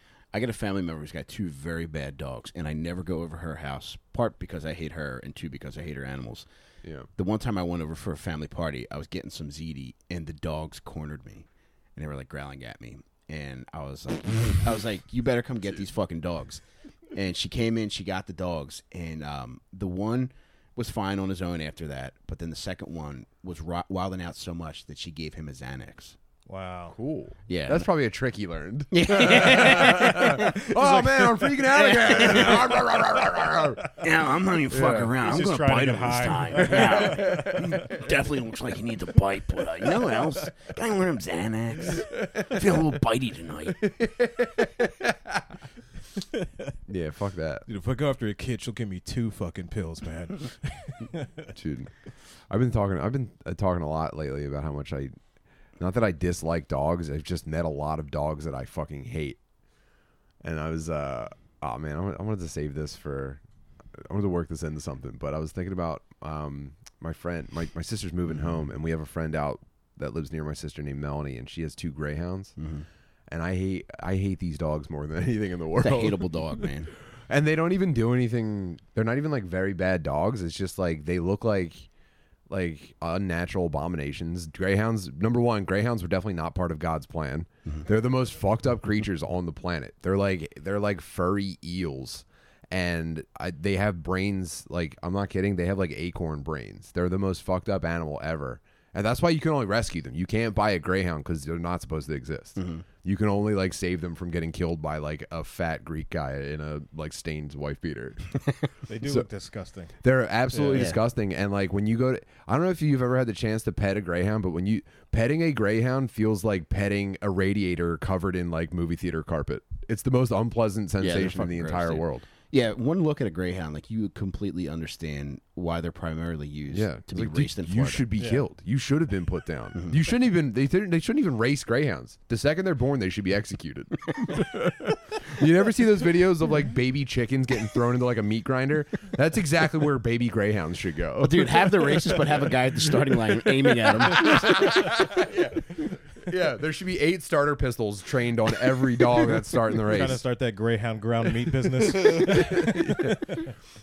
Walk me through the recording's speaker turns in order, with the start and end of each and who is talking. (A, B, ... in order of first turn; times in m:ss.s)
0:00.3-0:06.4 A
0:07.2-0:16.6 A
0:17.1-0:26.2 A
0:26.5-0:26.9 B
0:26.9-0:33.9 C
0:27.5-0:27.9 A
0:28.9-0:30.7 A
0:30.7-0:31.6 B
0:31.6-0:32.8 A
0:34.0-0:43.8 A
0:34.7-0:35.2 C
0:35.2-0:37.6 B
0:36.7-0:38.0 C
0:41.9-0:42.8 C
0:43.8-0:45.5 C
0:46.9-0:47.6 C
0:47.7-0:51.5 B
0:51.5-0:51.9 C
0:52.5-0:55.1 C
0:55.8-0:59.4 C
1:00.4-1:03.4 C
1:03.9-1:12.5 C
1:12.6-1:12.8 A
1:13.3-1:16.7 C
1:15.8-1:16.9 A
1:17.3-1:21.9 C
1:22.5-1:48.4 C
1:42.6-1:42.8 A
1:48.9-1:49.9 B
1:50.0-2:02.2 C
1:50.5-1:50.9 B
1:50.7-1:51.0 A
2:01.0-2:08.1 A
2:06.7-2:22.4 C
2:08.2-2:08.4 B
2:21.2-2:24.8 A
2:23.8-2:30.2 C
2:29.7-2:33.5 B
2:31.9-2:33.4 C